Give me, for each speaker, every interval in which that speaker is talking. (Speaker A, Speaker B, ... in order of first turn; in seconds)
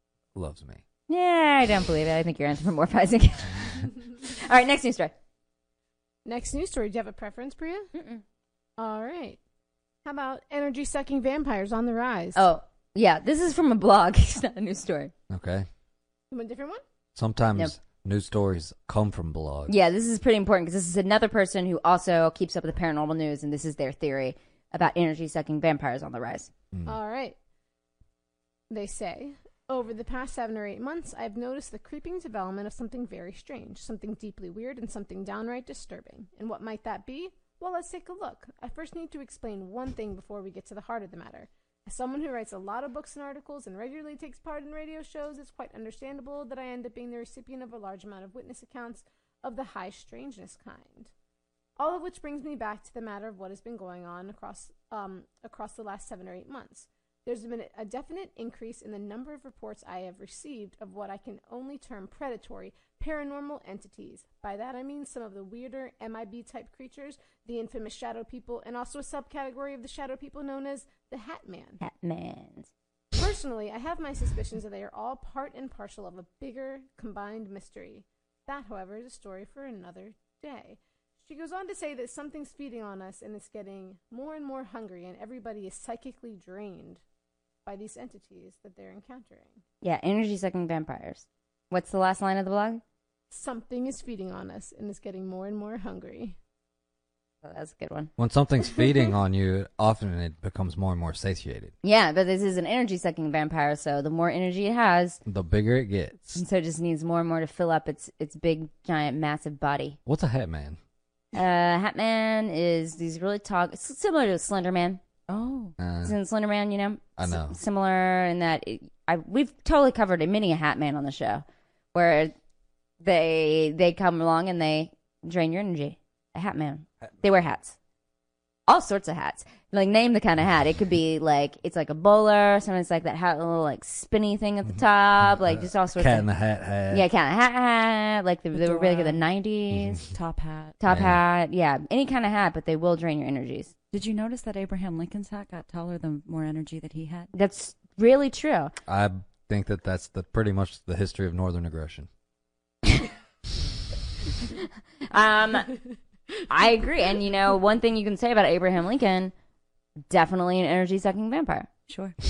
Speaker A: 0.3-0.8, 15.3-15.7, 17.1-19.7, 98.2-101.7, 105.2-106.4, 110.0-110.8, 115.8-116.1, 117.2-117.5, 134.7-137.1, 140.9-141.2, 148.9-152.1
Speaker B: 1.1-5.1, 7.9-8.2, 12.3-15.1, 19.7-26.5, 71.8-72.7, 89.8-92.8, 97.4-98.1, 101.8-105.2, 106.3-110.0, 111.3-115.0, 116.0-122.3, 123.0-127.8, 128.7-136.3, 136.9-140.0, 140.8-143.7, 147.3-148.7, 154.5-155.7, 156.5-159.3, 160.1-161.7
Speaker C: 6.2-7.9, 8.8-9.4, 10.0-12.4, 16.3-16.8, 26.9-27.4, 28.7-51.1, 51.8-71.8, 73.1-87.0, 87.7-89.6, 93.3-96.3
Speaker D: 115.3-115.7, 138.5-139.2, 140.1-140.8, 143.9-147.3, 161.9-162.1